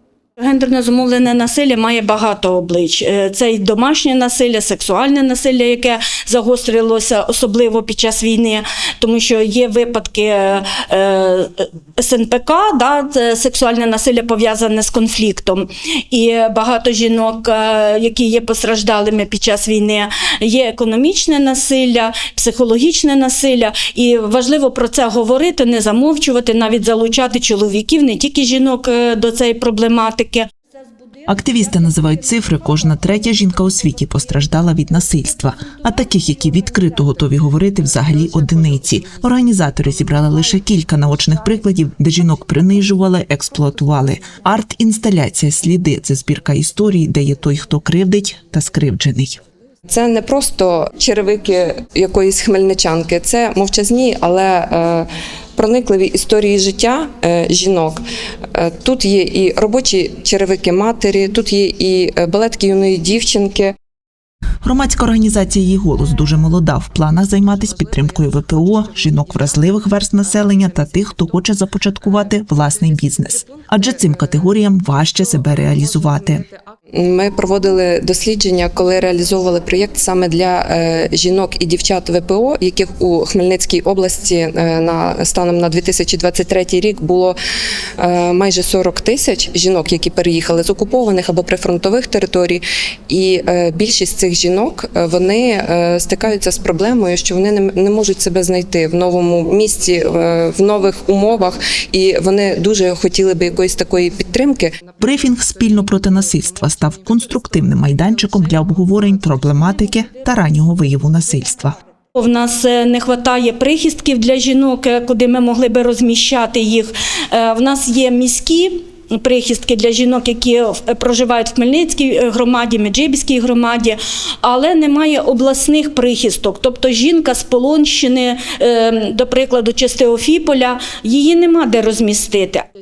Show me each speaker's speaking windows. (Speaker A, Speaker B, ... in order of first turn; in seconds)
Speaker A: 0.4-30.5, 112.1-132.7
Speaker B: 31.2-49.4, 64.6-76.5, 105.0-111.8
Speaker C: 49.9-63.7, 76.9-87.4, 88.0-104.8